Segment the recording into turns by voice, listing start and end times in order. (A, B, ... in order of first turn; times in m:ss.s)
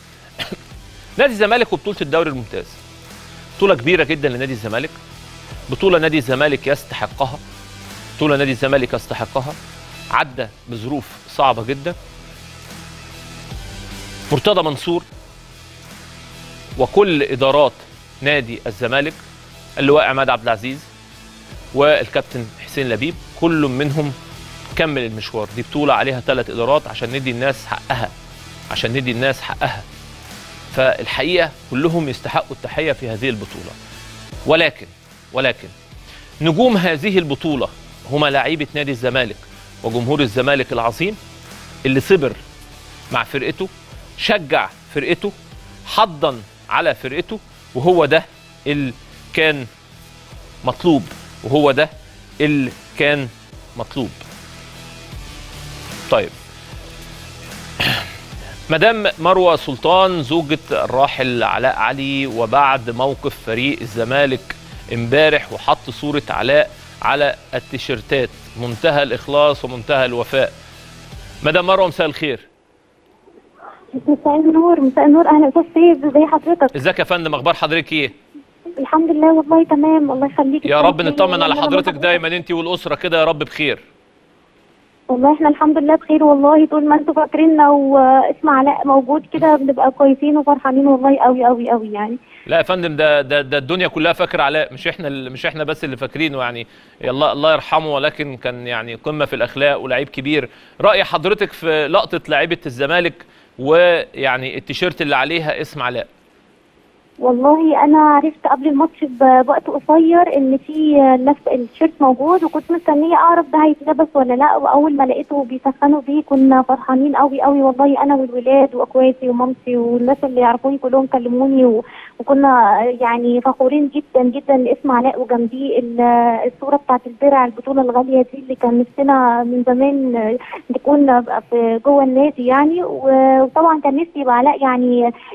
0:01.2-0:02.8 A
0:03.6-0:05.0 A
0:05.7-0:07.4 A
0:08.2-0:09.6 A
0:10.1-0:12.0 A
0:14.3-0:15.0 A
0:16.8-0:19.2 A
0:19.8-0:20.9 A
0:21.7-0:24.2 A
0:24.8-0:28.1 A
0:28.7-0:29.9 A
0:30.7-0:33.8 A
0:34.5-0:35.7 A
0:36.4-0:41.2 A
0:41.8-0:42.4 A
0:43.1-0:45.3 A
0:45.8-0:49.7 A
0:50.6-0:54.2 A
0:58.7-1:10.5 A
1:11.4-1:12.5 A
1:14.0-1:16.8 B
1:16.7-1:18.1 A
1:18.8-1:22.2 B
1:20.6-1:23.8 A
1:25.1-1:32.2 B
1:32.5-1:46.1 A
1:47.2-2:14.9 B